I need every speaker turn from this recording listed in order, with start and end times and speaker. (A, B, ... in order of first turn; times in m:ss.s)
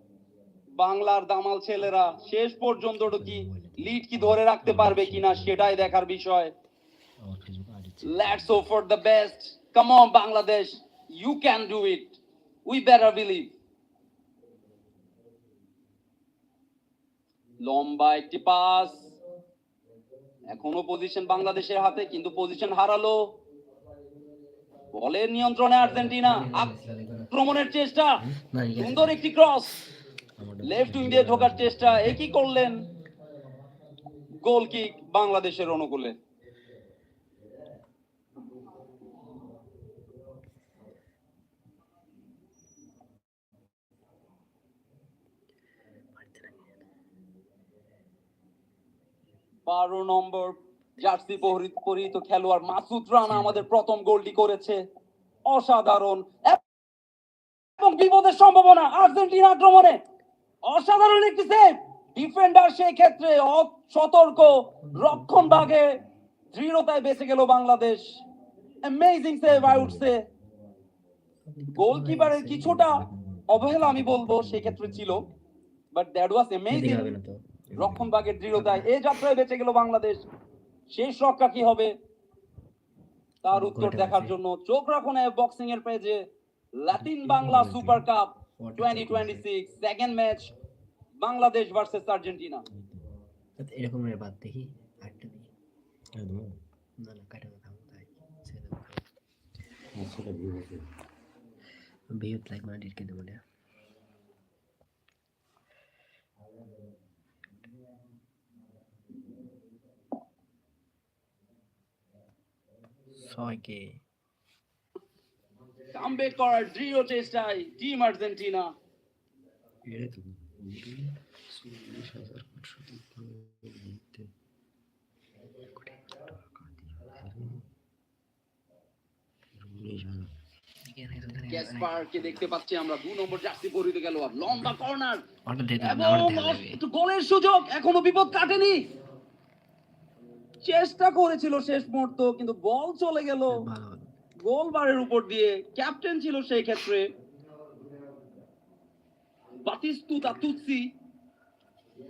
0:00.8-0:06.5 A
0:03.1-0:06.0 B
0:07.2-0:08.6 B
0:08.0-0:13.5 A
0:17.6-0:19.1 A
0:20.5-0:23.3 A
0:24.9-0:26.7 A
0:25.8-0:27.3 C
0:27.3-0:28.2 A
0:28.4-0:29.2 C
0:28.8-0:29.8 A
0:30.4-0:32.1 B
0:30.6-0:32.8 A
0:31.0-0:32.4 C
0:34.4-0:36.2 A
0:46.1-0:46.8 C
0:49.7-0:54.8 A
0:53.3-0:53.6 C
0:55.5-0:56.6 A
0:57.8-1:00.0 A
1:00.6-1:06.0 A
1:04.8-1:05.7 C
1:06.5-1:08.2 A
1:08.8-1:10.2 A
1:09.5-1:10.1 B
1:11.4-1:13.1 C
1:11.8-1:15.2 A
1:13.0-1:15.4 B
1:13.7-1:14.4 C
1:15.9-1:17.1 A
1:16.7-1:17.4 C
1:17.8-1:18.2 B
1:17.8-1:20.2 A
1:18.5-1:18.9 C
1:20.9-1:21.9 A
1:23.4-1:26.2 A
1:23.5-1:24.4 C
1:26.8-1:30.5 A
1:27.0-1:28.0 C
1:27.4-1:27.8 B
1:28.6-1:29.5 C
1:31.2-1:32.6 A
1:32.7-1:33.2 B
1:33.6-1:35.5 C
1:36.2-1:36.5 B
1:37.0-1:39.1 C
1:40.0-1:40.8 B
1:42.1-1:43.4 C
1:53.2-1:54.0 C
1:55.9-1:58.7 A
1:59.9-2:04.2 B
2:05.7-2:06.1 C
2:06.3-2:07.6 B
2:09.6-2:10.3 B
2:10.8-2:12.5 C
2:11.5-2:15.2 A
2:15.4-2:16.8 C
2:15.8-2:18.8 A
2:20.6-2:23.6 A
2:23.5-2:24.1 C
2:24.4-2:27.1 A
2:29.6-2:30.9 A